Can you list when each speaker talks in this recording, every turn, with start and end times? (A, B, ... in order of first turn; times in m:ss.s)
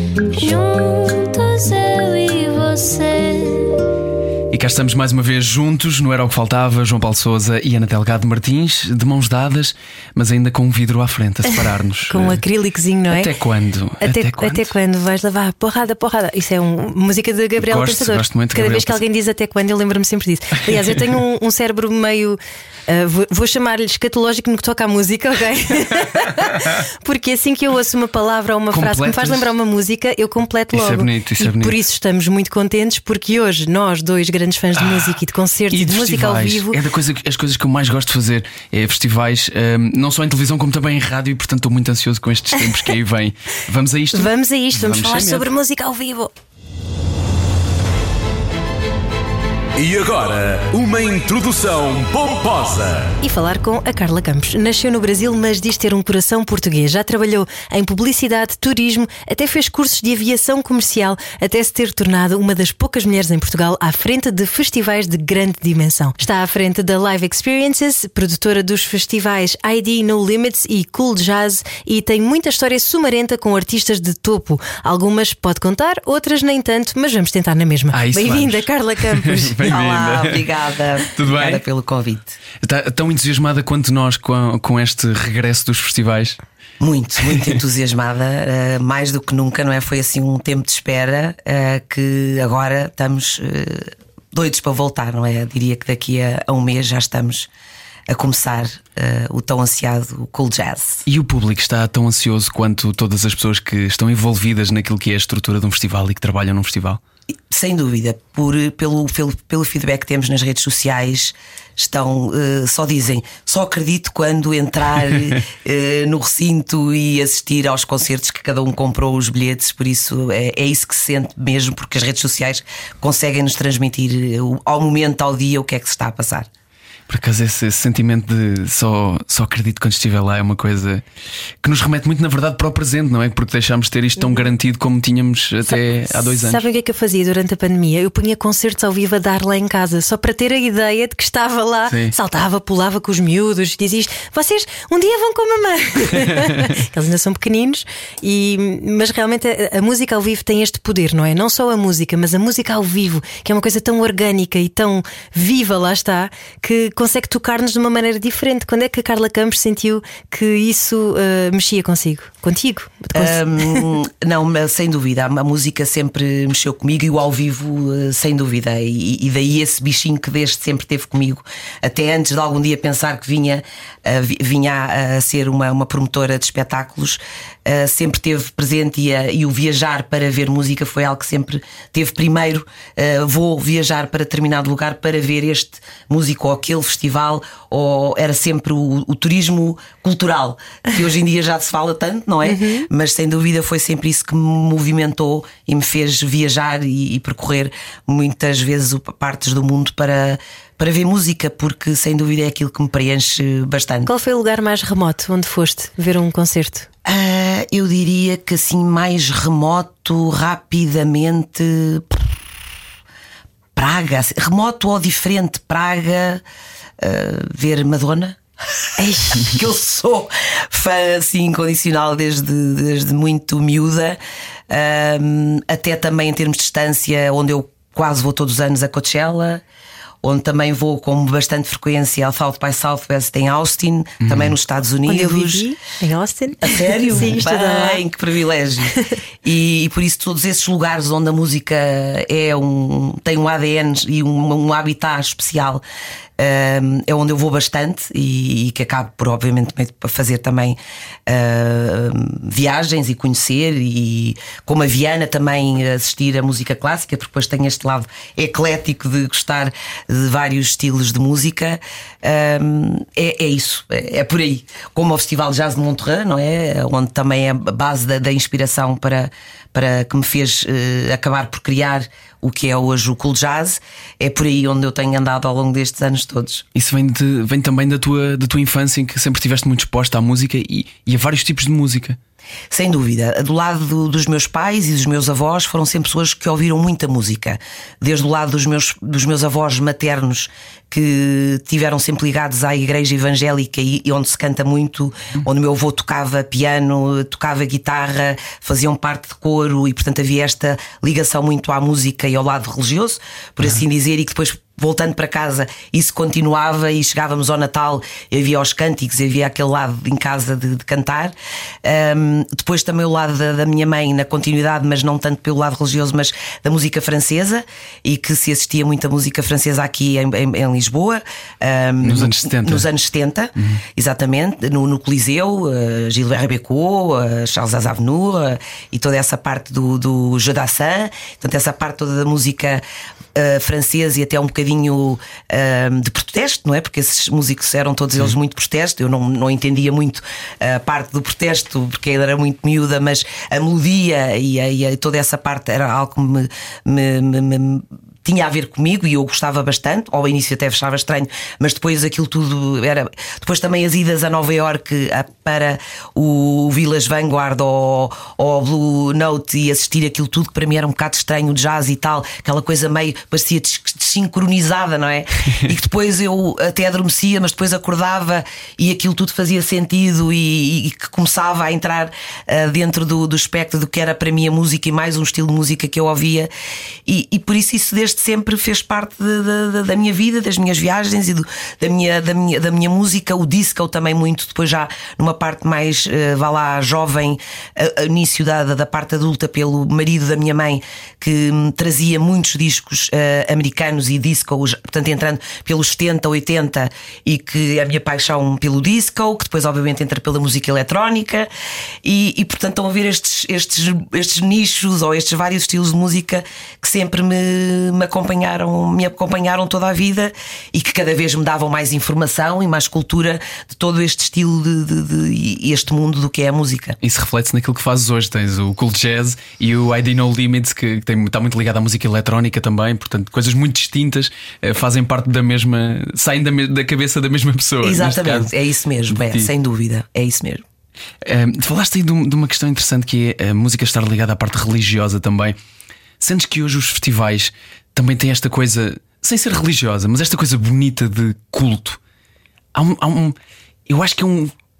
0:00.3-0:03.9 A
0:04.5-0:12.4 B
0:11.5-0:13.3 C
0:13.1-0:14.7 B
0:14.0-0:36.8 C
0:17.6-0:19.0 B
0:28.7-0:29.5 B
0:30.7-0:31.8 B
0:35.7-0:45.5 B
0:44.1-0:46.3 C
0:49.8-0:53.1 D
0:53.2-1:19.6 C
1:17.9-1:20.5 B
1:19.7-1:22.4 E
1:21.2-1:21.6 B
1:22.6-1:26.4 B
1:26.8-1:37.5 E
1:38.1-1:41.0 E
1:41.1-1:47.0 B
1:47.5-2:06.5 E
2:07.1-2:11.0 B
2:11.6-2:16.6 B
2:14.2-2:14.5 C
2:15.7-2:43.9 C
2:43.1-3:24.1 E
3:12.4-3:12.9 C
3:24.1-3:26.9 C
3:27.0-3:32.2 E
3:33.8-3:36.4 E
3:37.0-3:49.6 E
3:39.0-3:39.5 C
3:50.2-3:55.7 E
3:54.2-3:54.5 B
3:55.1-3:58.0 C
3:56.6-4:05.8 E
4:06.4-4:36.6 E
4:36.8-4:42.2 B
4:42.7-5:32.8 E
5:22.0-5:22.9 B
5:23.6-5:23.8 B
5:33.4-6:16.5 E
6:17.1-6:41.5 E
6:42.0-6:57.0 E
6:57.0-7:08.5 B
7:07.8-7:10.6 E
7:09.1-7:09.5 B
7:11.2-7:15.6 B
7:16.2-7:22.0 B
7:22.8-7:23.4 B
7:23.9-7:24.5 B